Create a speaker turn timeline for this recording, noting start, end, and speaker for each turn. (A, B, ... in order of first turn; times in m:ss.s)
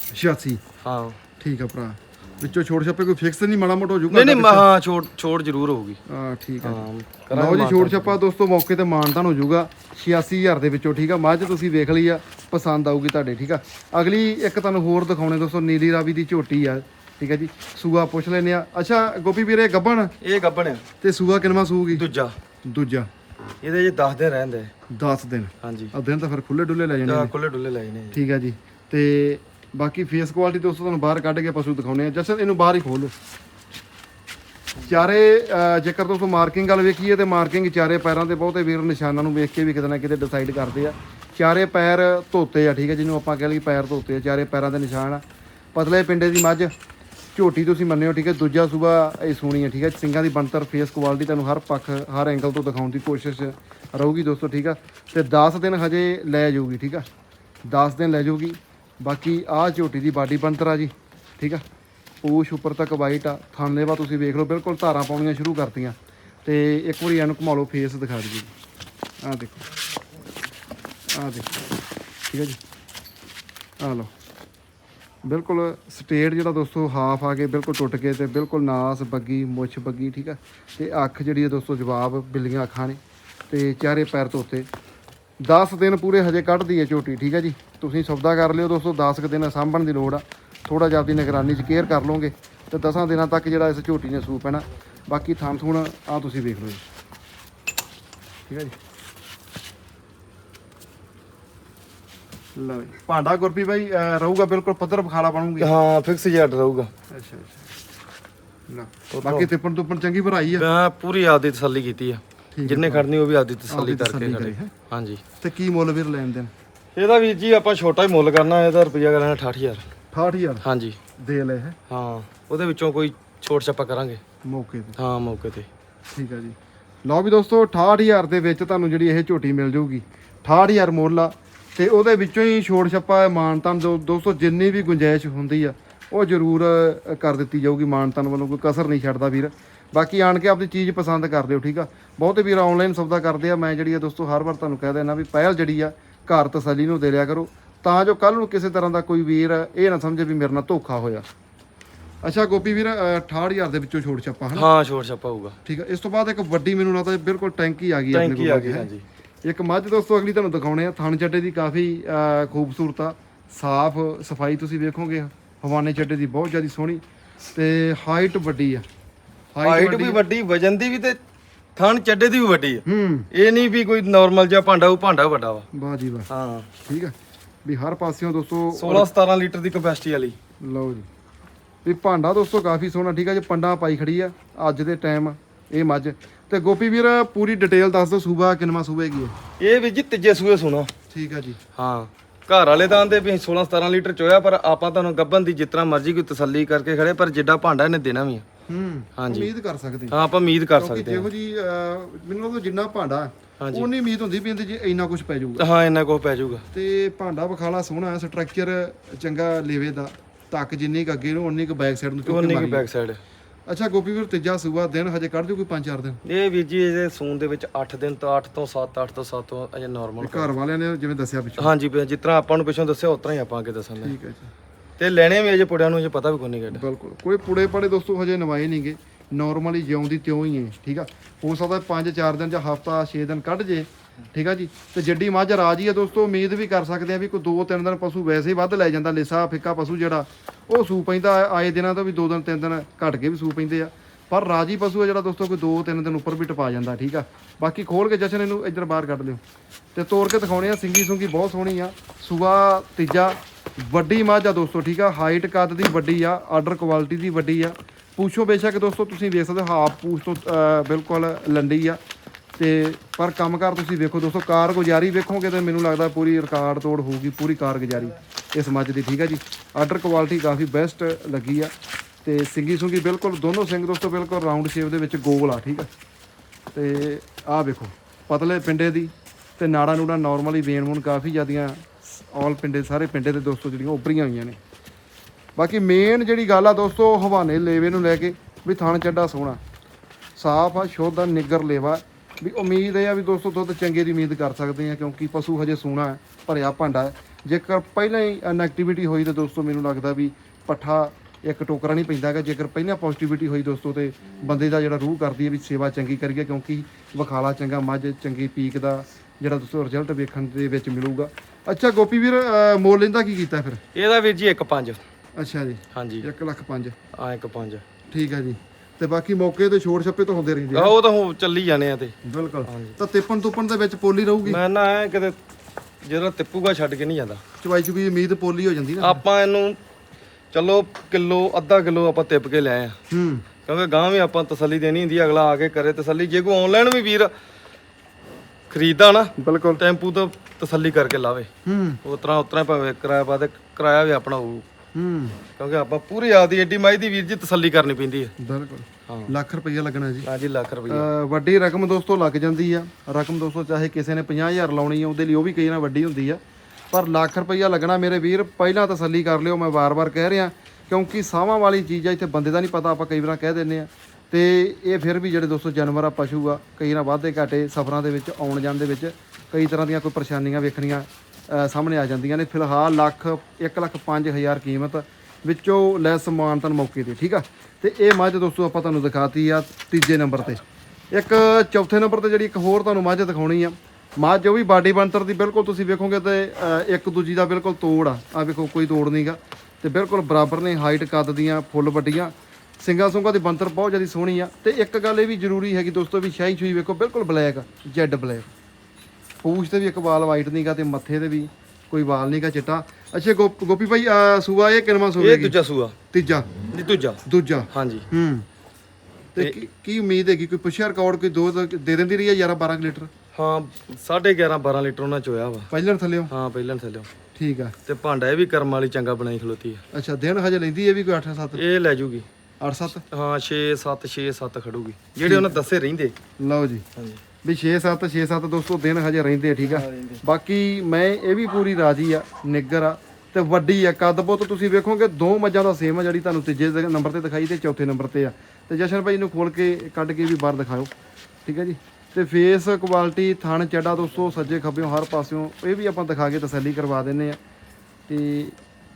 0:00.1-0:00.6 A
0:00.8-0:01.2 B
0:01.4-0:04.7 A
0:04.1-0:06.0 B
0:06.1-0:20.1 A
0:06.6-0:08.2 B
0:20.2-0:20.8 B
0:21.0-0:22.1 A
0:21.9-0:22.3 B
0:22.6-0:23.1 A
0:23.6-0:24.7 B
0:24.9-0:27.3 A
0:25.6-0:25.9 B
0:27.0-0:28.2 B
0:28.1-0:33.1 A
0:34.8-0:45.2 A
0:45.8-0:46.7 A
0:47.4-0:57.1 A
0:57.7-1:01.6 A
1:02.2-1:08.5 A
1:09.2-1:09.6 A
1:11.1-1:11.5 A
1:12.3-1:12.6 A
1:13.8-1:14.1 A
1:15.2-1:24.7 A
1:25.4-1:36.8 A
1:38.5-1:38.8 A
1:42.6-1:45.7 A
1:45.6-1:46.9 B
1:47.1-1:47.7 A
1:48.7-1:50.7 A
1:49.1-1:49.5 B
1:50.6-1:55.2 B
1:52.6-1:53.1 A
1:53.7-1:54.7 A
1:55.4-1:56.5 A
1:57.0-1:59.9 B
2:00.1-2:00.6 A
2:00.6-2:01.0 B
2:01.2-2:01.8 A
2:01.9-2:04.2 B
2:04.4-2:05.0 A
2:05.0-2:05.7 B
2:06.1-2:31.2 A
2:32.2-2:34.7 A
2:34.5-2:35.6 B
2:35.6-2:38.9 A
2:38.1-2:39.0 B
2:39.4-2:47.0 A
2:47.5-2:48.8 A
2:49.5-2:50.2 A
2:49.6-2:51.2 B
2:51.8-2:55.6 B
2:52.9-2:53.3 A
2:55.7-2:56.3 A
2:56.3-2:56.7 B
2:56.9-2:57.1 A
2:57.6-2:59.1 A
2:58.7-3:00.4 B
3:00.6-3:01.1 A
3:01.8-3:09.3 A
3:09.6-3:10.9 B
3:11.1-3:11.6 A
3:11.8-3:18.4 B
3:18.7-3:20.2 A
3:19.2-3:19.5 B
3:20.1-3:21.3 B
3:20.8-3:25.7 A
3:23.6-3:23.9 B
3:25.6-3:26.6 B
3:26.7-3:32.9 A
3:32.3-3:33.2 B
3:33.7-3:36.2 A
3:36.2-3:40.5 B
3:40.2-3:41.7 A
3:41.6-3:44.2 B
3:44.0-3:44.5 A
3:45.0-3:46.8 B
3:46.7-4:09.4 A
4:10.0-4:22.0 A
4:22.6-4:31.7 A
4:32.2-4:35.9 A
4:36.7-4:44.6 A
4:45.6-4:49.6 A
4:50.4-5:13.8 A
5:13.9-5:15.0 B
5:15.4-5:17.0 A
5:16.0-5:16.3 B
5:17.1-5:17.8 B
5:18.1-5:20.9 A
5:20.7-5:22.1 B
5:22.2-5:24.6 A
5:22.7-5:23.0 B
5:24.4-5:25.4 B
5:26.0-5:27.4 B
5:27.6-5:29.2 A
5:29.0-5:29.8 B
5:30.5-5:33.0 B
5:33.1-5:33.4 A
5:33.7-5:37.3 B
5:38.7-5:41.5 B
5:39.4-5:39.8 A
5:41.6-5:42.0 A
5:42.0-5:44.6 B
5:45.0-5:45.4 A
5:45.6-5:48.3 B
5:48.4-5:50.3 A
5:49.1-5:49.3 B
5:50.2-5:51.1 B
5:50.9-6:38.5 A
6:39.4-6:45.6 A
6:45.2-6:46.0 B
6:46.1-6:46.5 A
6:46.7-6:48.1 B
6:47.3-6:48.5 A
6:49.4-6:53.1 A
6:53.4-6:55.7 B
6:55.7-6:56.3 A
6:56.3-6:57.1 B
6:57.4-6:57.8 A
6:57.9-6:59.8 B
6:59.9-7:01.6 A
7:01.6-7:02.3 B
7:02.6-7:03.0 A
7:03.1-7:06.1 B
7:05.2-7:05.6 A
7:06.4-7:06.8 A
7:07.0-7:07.2 B
7:07.4-7:20.9 A
7:09.6-7:10.2 B
7:21.4-7:27.4 A
7:28.1-7:28.6 A